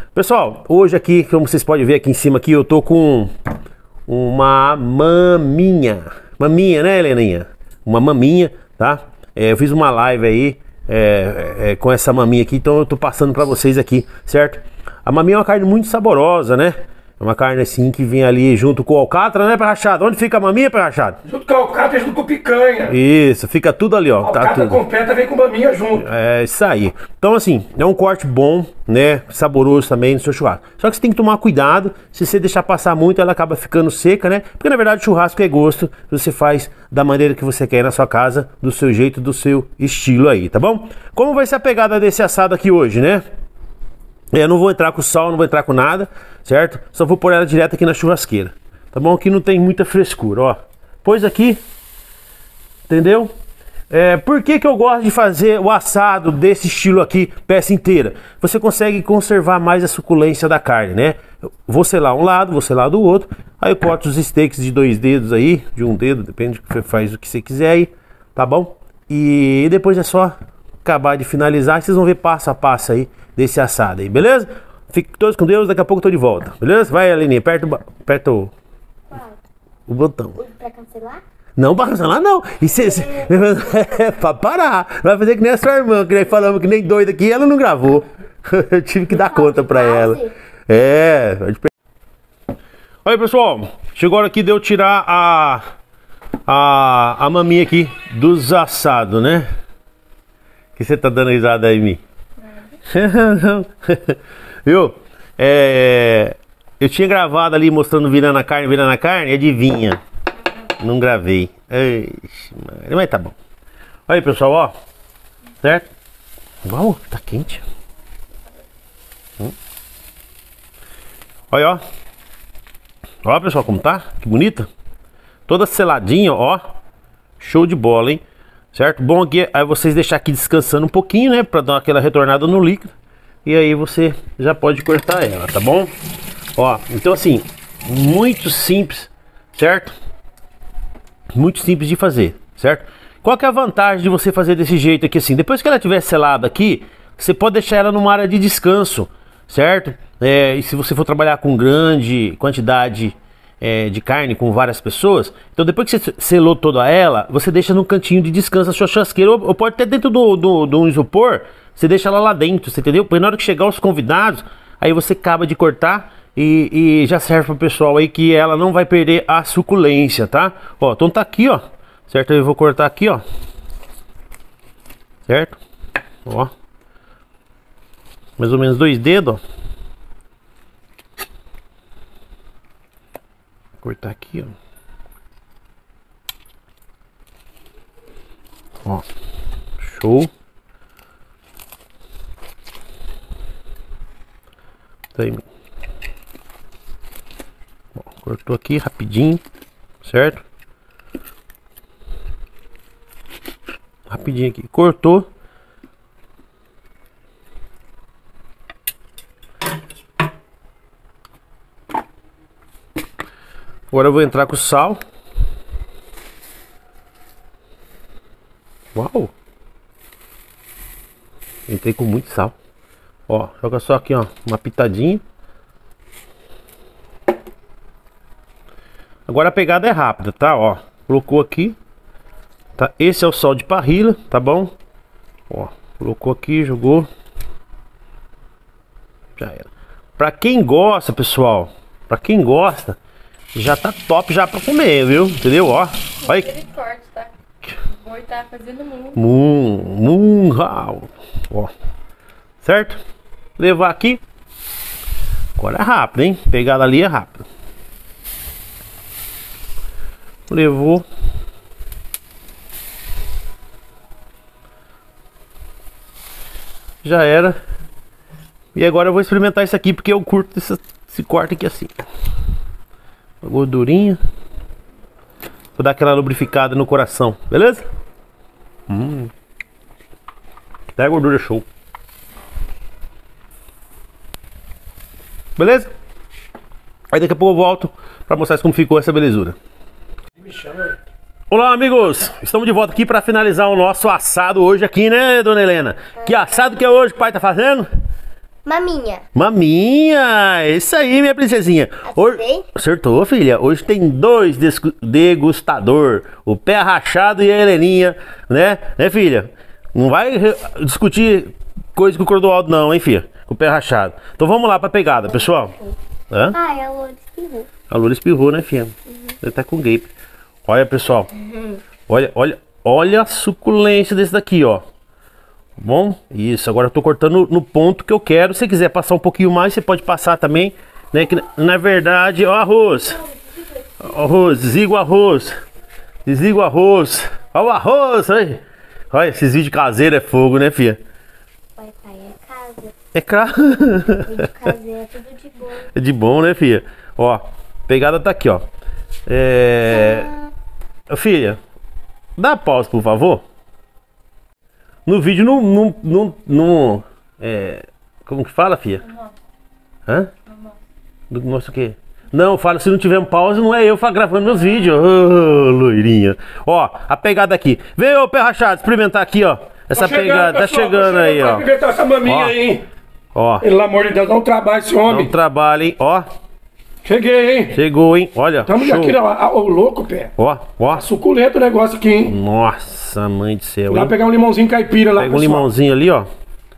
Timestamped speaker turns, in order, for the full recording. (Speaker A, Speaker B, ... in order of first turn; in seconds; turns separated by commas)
Speaker A: 0.1-3.3, Speaker A: 4.1-21.2, Speaker B: 21.3-23.0, Speaker A: 22.9-24.8, Speaker B: 24.2-26.1, Speaker A: 25.9-43.2, Speaker A: 44.3-51.6, Speaker A: 52.9-53.3, Speaker A: 53.9-78.5, Speaker C: 79.1-79.4, Speaker A: 79.9-80.4, Speaker C: 80.4-81.2, Speaker A: 81.6-91.7, Speaker C: 82.9-83.3, Speaker C: 89.1-90.3, Speaker A: 93.0-95.6, Speaker A: 96.5-99.5, Speaker A: 100.8-102.0, Speaker A: 102.8-110.0, Speaker A: 110.8-113.3, Speaker A: 114.1-114.7, Speaker A: 115.6-115.9, Speaker A: 116.7-117.6, Speaker A: 121.5-121.8, Speaker A: 123.2-124.7, Speaker A: 125.5-126.6, Speaker A: 127.4-128.2, Speaker A: 128.7-132.9, Speaker A: 133.4-135.9, Speaker A: 136.6-139.9, Speaker A: 141.3-173.2, Speaker A: 175.3-175.6, Speaker A: 176.3-176.5, Speaker A: 178.4-179.4, Speaker A: 183.8-184.6, Speaker A: 189.8-190.3, Speaker A: 195.2-195.5, Speaker A: 198.0-199.4, Speaker A: 200.0-200.4, Speaker A: 204.1-205.3, Speaker A: 213.9-215.0, Speaker A: 218.9-219.3, Speaker A: 221.7-222.6, Speaker A: 223.3-225.2, Speaker A: 229.3-231.8, Speaker A: 232.8-234.7, Speaker A: 235.5-237.1, Speaker A: 239.4-243.0, Speaker A: 243.5-246.6, Speaker D: 246.2-247.3, Speaker D: 248.0-249.2, Speaker A: 249.1-251.7, Speaker A: 252.6-253.0, Speaker A: 253.6-254.2, Speaker A: 255.6-257.5, Speaker A: 260.5-261.1, Speaker A: 267.0-267.6, Speaker A: 268.7-272.1, Speaker A: 273.4-274.2, Speaker A: 275.8-277.9, Speaker A: 278.9-279.3, Speaker A: 281.0-281.7, Speaker A: 285.6-285.9, Speaker A: 287.1-289.6, Speaker B: 290.4-291.0, Speaker A: 291.5-297.9, Speaker C: 296.2-296.6, Speaker C: 298.6-299.2, Speaker A: 299.4-315.8, Speaker C: 302.1-302.7, Speaker C: 315.3-316.0, Speaker A: 316.3-316.6, Speaker C: 316.5-317.7, Speaker A: 317.9-320.1, Speaker C: 319.1-319.4, Speaker A: 320.7-321.3, Speaker C: 321.4-321.8, Speaker A: 322.1-324.8, Speaker A: 325.8-333.2, Speaker A: 334.0-335.6, Speaker A: 336.3-341.0, Speaker C: 341.8-343.0, Speaker A: 343.1-344.4, Speaker C: 344.1-345.9, Speaker A: 345.9-348.6, Speaker A: 349.3-350.3, Speaker C: 349.9-350.5, Speaker A: 351.1-351.6, Speaker A: 352.4-353.4, Speaker A: 355.1-359.1, Speaker A: 360.1-360.3, Speaker D: 360.5-360.8, Speaker A: 361.3-371.7, Speaker B: 370.0-372.9, Speaker A: 372.2-372.6, Speaker A: 373.3-373.7, Speaker B: 373.6-375.3, Speaker A: 375.1-376.3, Speaker B: 377.1-377.8, Speaker A: 377.7-379.2, Speaker B: 378.7-380.3, Speaker A: 380.4-381.1, Speaker B: 380.9-382.4, Speaker A: 382.2-384.1, Speaker B: 383.9-385.7, Speaker A: 385.2-386.3